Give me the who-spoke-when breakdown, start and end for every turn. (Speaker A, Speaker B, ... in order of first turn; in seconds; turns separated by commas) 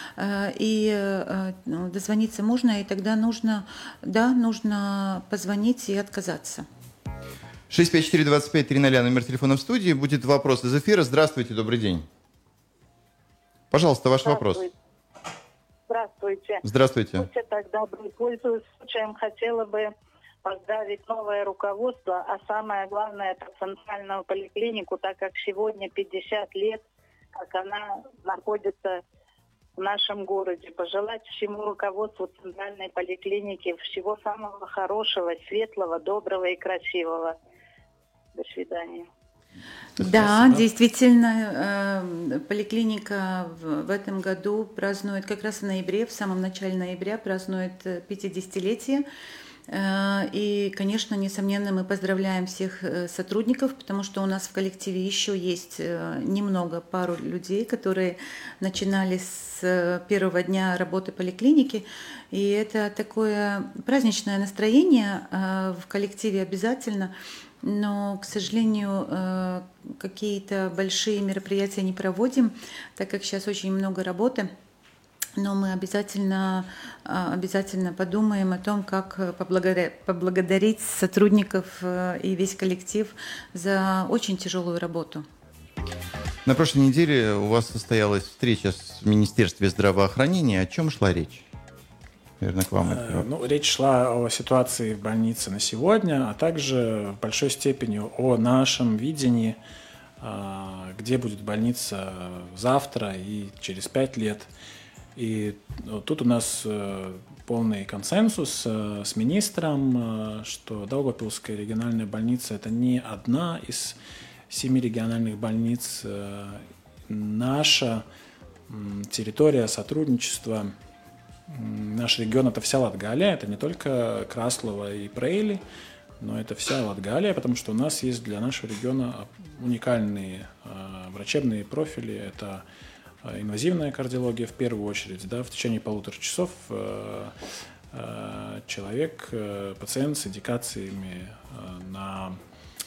Speaker A: 0.2-6.7, Speaker B: 7.7-12.1, Speaker B: 13.7-14.6, Speaker C: 14.2-14.7, Speaker C: 15.9-16.6, Speaker B: 16.6-17.3, Speaker C: 17.2-19.9, Speaker C: 20.4-26.8, Speaker C: 27.4-29.0, Speaker C: 29.8-37.4, Speaker C: 38.4-39.1, Speaker B: 40.0-40.6, Speaker A: 40.0-49.0, Speaker A: 49.7-74.5, Speaker A: 75.4-85.3, Speaker B: 86.5-91.5, Speaker B: 92.4-93.3, Speaker D: 92.8-99.6, Speaker D: 100.2-104.5, Speaker D: 105.2-114.0, Speaker D: 114.5-118.0, Speaker D: 118.7-120.7, Speaker D: 121.5-125.6, Speaker D: 126.2-132.6, Speaker D: 133.2-137.3, Speaker D: 137.9-142.4